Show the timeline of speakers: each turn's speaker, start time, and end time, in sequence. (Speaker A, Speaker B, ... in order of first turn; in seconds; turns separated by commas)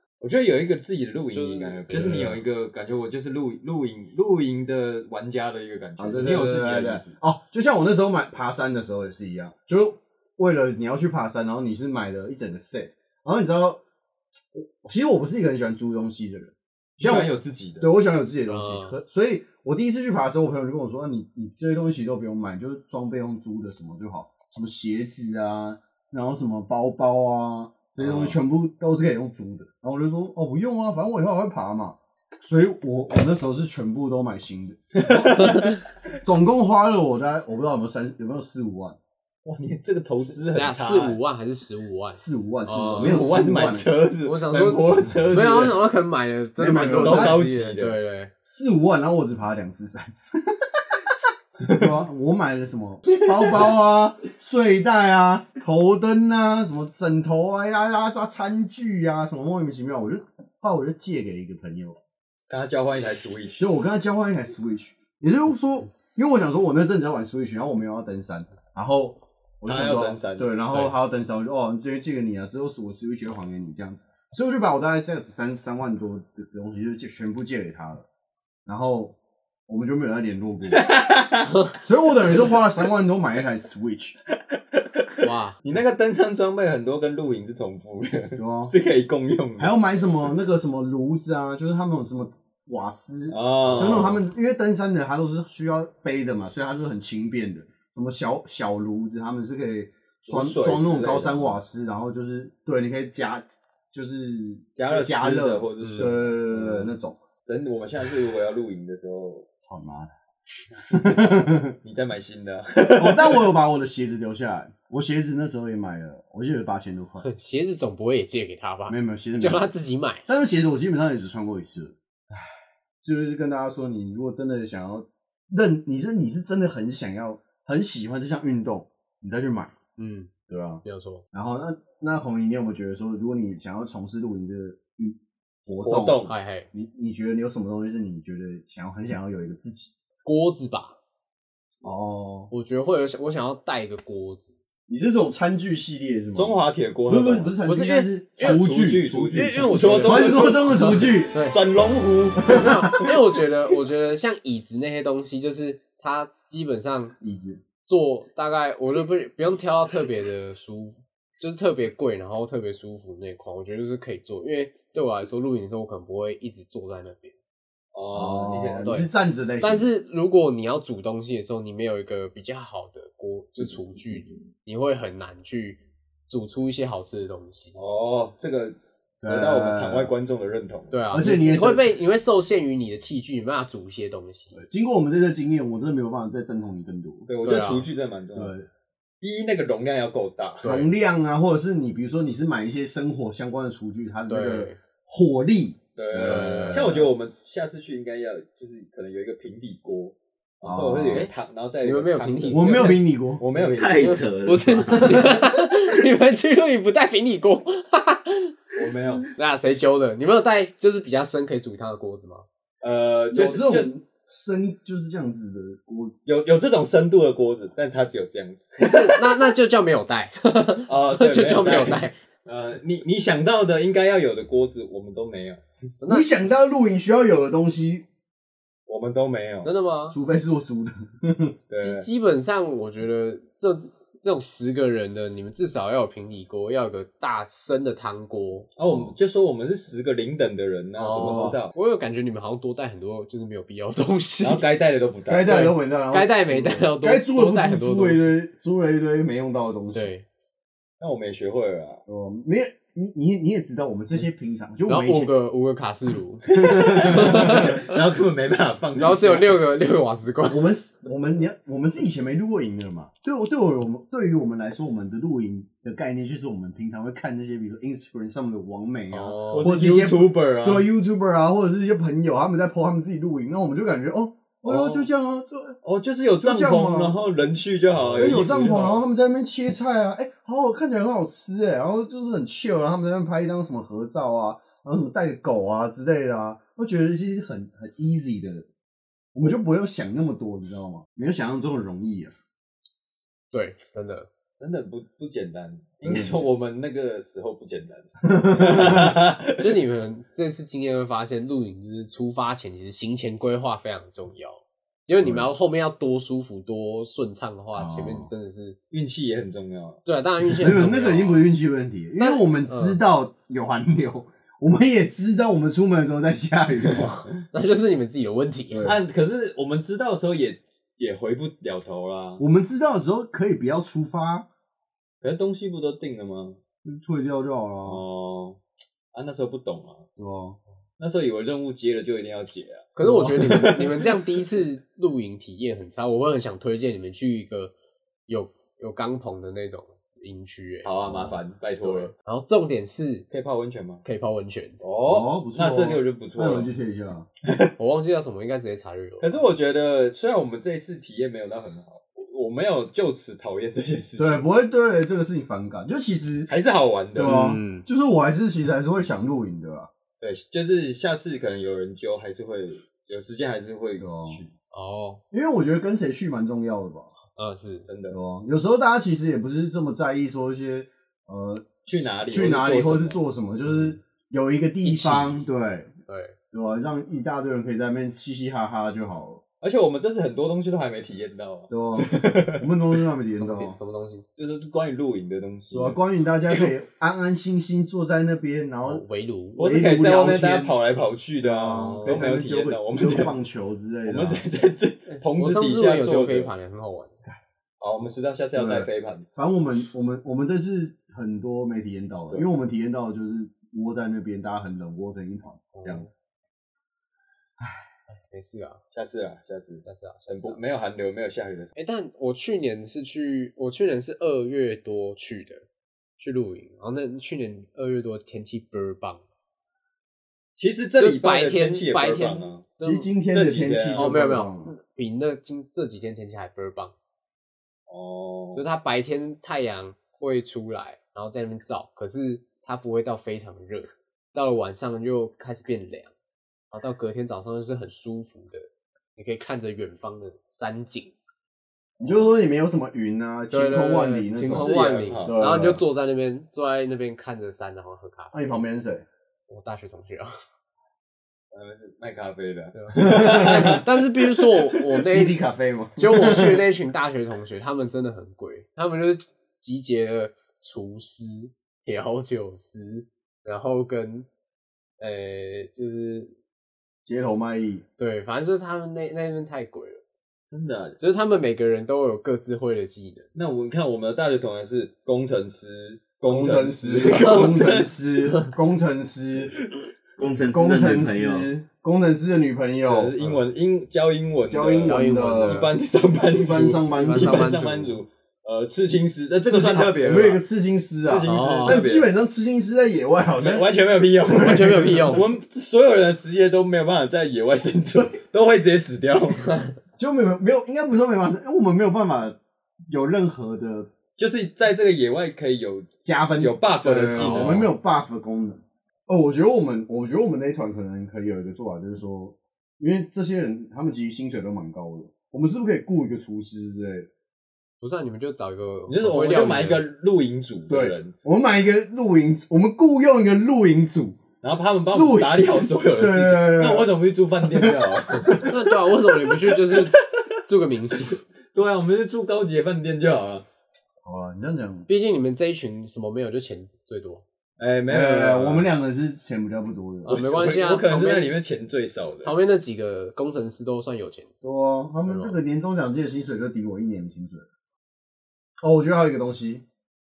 Speaker A: 0.2-7.2, Speaker B: 1.2-2.2, Speaker C: 1.9-2.4, Speaker C: 6.0-13.8, Speaker C: 14.5-35.4, Speaker A: 17.0-17.9, Speaker B: 18.5-19.0, Speaker A: 28.0-28.4, Speaker A: 35.0-35.8, Speaker C: 36.2-39.0, Speaker A: 39.5-41.2, Speaker B: 40.2-43.2, Speaker C: 42.1-43.9, Speaker A: 42.8-45.8, Speaker B: 44.2-48.3, Speaker C: 46.6-47.4, Speaker A: 47.0-48.0, Speaker C: 48.5-51.2, Speaker A: 51.6-51.9, Speaker C: 51.7-62.0, Speaker A: 53.2-53.7, Speaker A: 62.5-63.7, Speaker C: 63.6-78.1, Speaker A: 69.7-70.5, Speaker C: 78.7-79.2, Speaker C: 79.7-80.9, Speaker A: 80.7-81.6, Speaker C: 81.8-84.2, Speaker A: 84.7-89.8, Speaker B: 85.2-85.6, Speaker C: 88.4-88.7, Speaker C: 89.6-107.2, Speaker A: 93.3-94.2, Speaker A: 100.3-101.6, Speaker A: 104.8-106.9, Speaker B: 105.8-106.1, Speaker A: 107.5-109.5, Speaker C: 109.6-110.1, Speaker C: 110.9-111.8, Speaker A: 111.8-113.5, Speaker C: 113.0-117.3, Speaker B: 117.2-120.3, Speaker C: 118.9-119.7, Speaker C: 120.3-129.7, Speaker B: 130.0-130.3, Speaker C: 130.5-130.8, Speaker B: 130.8-131.2, Speaker C: 131.3-136.2, Speaker A: 135.8-136.3, Speaker B: 136.2-136.7, Speaker C: 136.7-139.9, Speaker B: 140.2-141.0, Speaker C: 141.8-142.5, Speaker B: 142.5-144.6, Speaker C: 144.9-151.3, Speaker A: 146.3-147.6, Speaker B: 147.6-148.7, Speaker A: 148.4-152.6, Speaker B: 149.3-151.6, Speaker C: 152.4-153.2, Speaker B: 152.5-157.2, Speaker C: 157.2-157.6, Speaker B: 157.8-167.3, Speaker A: 167.9-169.0, Speaker C: 168.1-169.9, Speaker B: 169.6-177.8, Speaker A: 177.8-181.0, Speaker C: 179.2-180.1, Speaker B: 180.9-184.6, Speaker C: 181.1-181.9, Speaker C: 184.5-187.3, Speaker A: 187.3-188.6, Speaker B: 187.4-187.9, Speaker C: 188.3-188.7, Speaker A: 189.2-190.7, Speaker B: 190.6-190.9, Speaker C: 190.6-197.1, Speaker B: 194.3-194.8, Speaker A: 196.0-204.2, Speaker B: 196.1-197.0, Speaker C: 200.6-201.3, Speaker B: 201.8-203.1, Speaker C: 202.5-203.4, Speaker D: 203.6-205.3, Speaker B: 203.9-208.6, Speaker C: 205.0-205.3, Speaker A: 208.8-209.3, Speaker B: 209.2-212.5, Speaker A: 212.8-213.9, Speaker C: 213.3-216.3, Speaker A: 216.3-219.5, Speaker B: 218.8-222.2, Speaker A: 220.9-225.6, Speaker B: 226.0-226.3, Speaker C: 226.1-228.1, Speaker A: 228.9-229.7, Speaker B: 229.6-230.2, Speaker C: 230.1-231.6, Speaker A: 231.7-232.1, Speaker B: 231.8-238.7, Speaker A: 238.8-241.7, Speaker C: 238.9-239.1, Speaker B: 241.0-244.7, Speaker C: 241.2-241.6, Speaker A: 244.4-245.7, Speaker C: 245.3-250.1, Speaker B: 245.5-248.3, Speaker B: 249.9-250.2, Speaker A: 251.0-252.0, Speaker C: 252.1-255.3, Speaker B: 254.9-258.0, Speaker A: 256.5-259.6, Speaker C: 256.6-257.8, Speaker B: 259.0-260.6, Speaker C: 260.5-275.8, Speaker B: 269.1-269.7, Speaker A: 269.4-270.9, Speaker A: 274.7-275.1, Speaker A: 275.8-279.0, Speaker C: 276.4-277.1, Speaker C: 278.1-288.7, Speaker C: 289.3-292.3, Speaker B: 293.5-294.3, Speaker A: 294.6-299.8, Speaker C: 296.1-296.4, Speaker C: 298.3-299.1, Speaker B: 299.6-308.8, Speaker C: 305.2-305.5, Speaker C: 307.8-308.3, Speaker A: 308.9-310.0, Speaker B: 310.1-311.5, Speaker C: 310.6-317.1, Speaker B: 312.2-313.0, Speaker A: 316.9-317.3, Speaker B: 317.1-318.9, Speaker C: 318.7-319.0, Speaker A: 318.8-322.4, Speaker C: 322.4-324.5, Speaker A: 325.2-326.6, Speaker C: 326.8-328.0, Speaker A: 327.8-328.6, Speaker A: 329.1-330.1, Speaker C: 330.2-330.6, Speaker A: 331.0-334.2, Speaker B: 333.0-337.7, Speaker B: 338.3-341.2, Speaker A: 340.8-342.1, Speaker B: 341.8-343.3, Speaker A: 343.3-344.0, Speaker B: 344.1-344.8, Speaker A: 344.8-346.7, Speaker C: 345.1-347.3, Speaker A: 347.5-347.7, Speaker B: 347.8-349.5, Speaker A: 349.2-354.5, Speaker C: 354.2-356.5, Speaker A: 356.5-357.4, Speaker C: 357.1-359.9, Speaker B: 357.2-357.9, Speaker A: 360.2-364.5, Speaker C: 364.0-364.4, Speaker B: 364.7-365.2, Speaker C: 365.3-367.1, Speaker B: 367.4-367.9, Speaker A: 367.9-368.2, Speaker C: 368.1-375.9, Speaker A: 371.9-373.2, Speaker A: 374.8-375.3, Speaker B: 376.1-376.4, Speaker C: 376.5-379.4, Speaker A: 379.6-382.9, Speaker C: 381.7-383.8, Speaker B: 383.3-384.2, Speaker A: 384.4-386.7, Speaker C: 385.7-389.0, Speaker B: 388.9-389.6, Speaker C: 389.6-390.7, Speaker A: 389.6-393.3, Speaker C: 391.4-394.5, Speaker B: 391.7-392.2, Speaker A: 394.1-396.5, Speaker B: 395.1-397.1, Speaker A: 397.8-399.3, Speaker C: 398.6-406.0, Speaker B: 405.7-406.1, Speaker B: 408.3-408.8, Speaker A: 408.9-411.7, Speaker B: 409.9-410.6, Speaker B: 411.8-415.6, Speaker B: 416.2-419.2, Speaker A: 420.6-422.6, Speaker B: 421.0-423.1, Speaker C: 422.8-424.7, Speaker A: 423.3-424.1, Speaker B: 424.0-426.9, Speaker A: 427.9-428.6, Speaker B: 428.6-436.1, Speaker B: 436.7-438.6, Speaker B: 439.2-441.1, Speaker C: 442.0-445.8, Speaker A: 442.0-442.3, Speaker B: 443.5-448.3, Speaker A: 444.5-445.4, Speaker C: 448.3-449.1, Speaker B: 449.5-450.3, Speaker A: 451.5-454.4, Speaker B: 452.8-455.4, Speaker C: 453.0-453.8, Speaker C: 454.9-456.7, Speaker B: 456.0-464.3, Speaker B: 465.0-466.3, Speaker C: 467.1-467.9, Speaker B: 468.0-470.0, Speaker A: 470.5-471.0, Speaker B: 471.0-473.3, Speaker A: 473.4-478.0, Speaker C: 476.3-479.5, Speaker A: 479.6-479.8, Speaker D: 480.2-481.5, Speaker C: 480.4-483.1, Speaker A: 482.9-490.4, Speaker C: 484.5-485.7, Speaker B: 484.9-485.8, Speaker C: 486.3-487.5, Speaker B: 486.4-488.0, Speaker C: 489.4-493.7, Speaker A: 491.0-492.1, Speaker B: 491.2-491.9, Speaker A: 493.4-499.5, Speaker C: 494.3-495.2, Speaker B: 494.3-495.3, Speaker C: 500.0-503.9, Speaker A: 504.2-507.7, Speaker C: 506.0-517.1, Speaker B: 507.2-507.7, Speaker B: 517.8-519.8, Speaker A: 518.9-521.1, Speaker C: 520.7-524.2, Speaker A: 524.4-530.3, Speaker C: 524.9-526.9, Speaker C: 527.5-528.0, Speaker B: 528.3-531.2, Speaker A: 531.5-533.5, Speaker C: 534.0-534.9, Speaker B: 534.9-537.2, Speaker A: 537.6-538.7, Speaker C: 537.9-540.3, Speaker B: 540.0-541.3, Speaker A: 540.1-542.4, Speaker B: 542.2-544.3, Speaker C: 544.4-547.5, Speaker B: 545.0-545.4, Speaker C: 548.6-549.6